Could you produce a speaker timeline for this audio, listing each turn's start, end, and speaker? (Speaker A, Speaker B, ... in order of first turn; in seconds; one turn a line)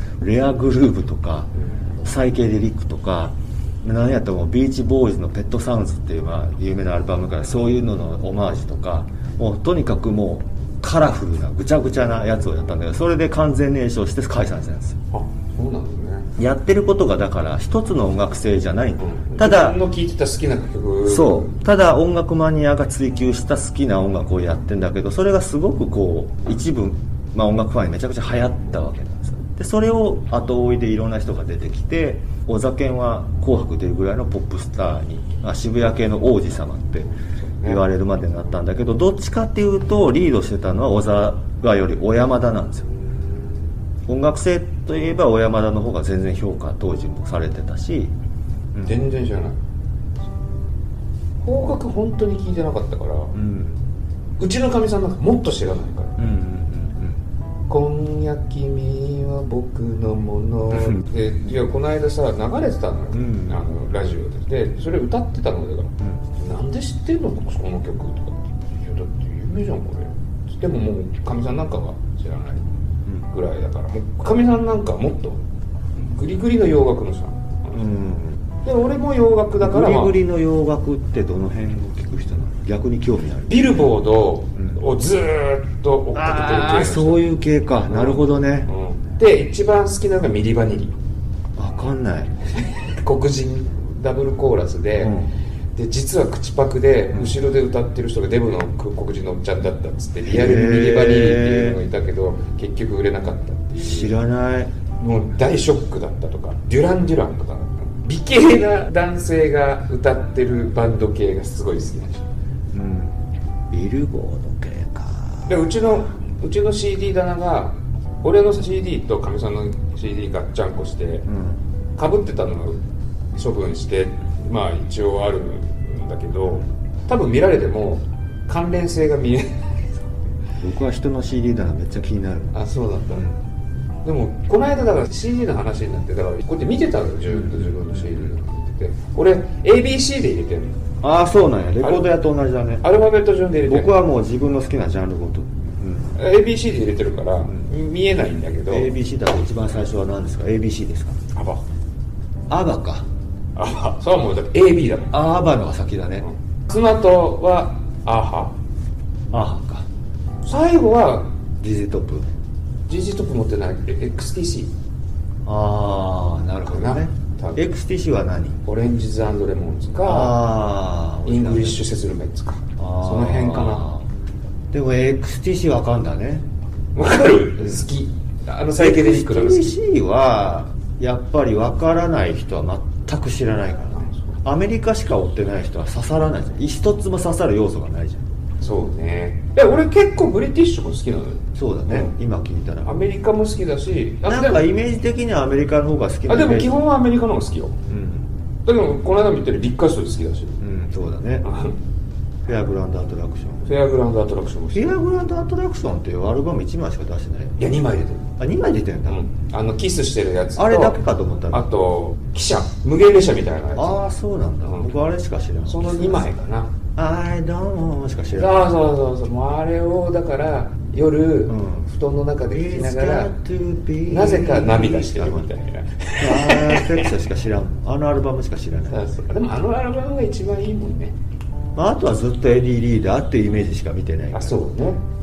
Speaker A: 0.2-15.0
Speaker B: 15.1-16.3
Speaker A: 16.4-19.8
Speaker B: 19.0-21.6
Speaker A: 21.1-37.1
Speaker B: 37.4-37.8
Speaker A: 37.6-42.9
Speaker A: 44.1-48.1
Speaker A: 48.7-49.0
Speaker B: 48.9-49.6
Speaker B: 51.4-53.3
Speaker A: 53.3-53.8
Speaker B: 54.4-56.2
Speaker A: 56.2-57.2
Speaker B: 57.7-72.7
Speaker A: 60.7-61.0
Speaker A: 63.1-63.7
Speaker B: 73.3-75.4
Speaker B: 76.0-77.8
Speaker A: 77.7-78.4
Speaker B: 78.6-80.2
Speaker A: 79.6-83.8
Speaker B: 83.5-87.2
Speaker A: 84.5-84.8
Speaker A: 86.1-88.7
Speaker B: 87.9-91.0
Speaker A: 91.6-92.3
Speaker B: 92.6-95.2
Speaker A: 95.0-95.3
Speaker B: 95.8-104.2
Speaker A: 97.1-97.4
Speaker A: 100.2-101.8
Speaker A: 103.8-104.7
Speaker B: 105.0-112.3
Speaker A: 112.7-113.2
Speaker A: 113.7-115.7
Speaker B: 115.5-121.3
Speaker A: 121.3-121.6
Speaker B: 122.0-122.8
Speaker B: 123.3-129.7
Speaker A: 130.6-132.5
Speaker B: 132.5-133.3
Speaker A: 133.1-133.4
Speaker B: 134.0-140.8
Speaker A: 137.3-138.3
Speaker A: 141.0-142.8
Speaker B: 141.8-142.1
Speaker B: 142.8-144.0
Speaker A: 143.6-146.2
Speaker B: 146.2-148.9
Speaker A: 148.7-151.2
Speaker B: 151.3-151.6
Speaker A: 152.5-153.1
Speaker B: 153.6-155.2
Speaker A: 155.1-156.3
Speaker B: 156.2-158.6
Speaker A: 159.3-159.9
Speaker B: 160.4-161.3
Speaker A: 161.6-162.3
Speaker B: 162.9-164.7
Speaker A: 165.4-168.6
Speaker B: 166.7-167.7
Speaker B: 168.7-170.4
Speaker A: 170.0-171.9
Speaker B: 171.3-173.9
Speaker A: 172.8-174.1
Speaker A: 174.7-176.5
Speaker B: 176.9-179.8
Speaker A: 177.6-177.9
Speaker A: 178.8-188.3
Speaker B: 183.9-184.4
Speaker B: 188.6-192.1
Speaker A: 191.6-192.9
Speaker B: 192.8-194.7
Speaker A: 194.2-196.8
Speaker B: 196.3-197.8
Speaker A: 197.9-198.3
Speaker B: 198.7-200.6
Speaker A: 200.6-201.5
Speaker B: 201.4-201.8
Speaker A: 202.5-203.7
Speaker B: 203.7-205.0
Speaker A: 204.7-207.6
Speaker B: 207.6-208.3
Speaker A: 208.4-209.2
Speaker B: 209.1-211.0
Speaker A: 210.6-211.7
Speaker B: 211.5-214.0
Speaker A: 213.8-216.3
Speaker B: 214.6-214.9
Speaker B: 215.7-216.7
Speaker A: 217.0-218.7
Speaker B: 218.3-223.3
Speaker A: 221.5-221.9
Speaker A: 222.5-225.5
Speaker B: 224.1-227.1
Speaker A: 226.2-229.0
Speaker B: 228.9-231.2
Speaker A: 231.8-234.6
Speaker B: 234.3-235.0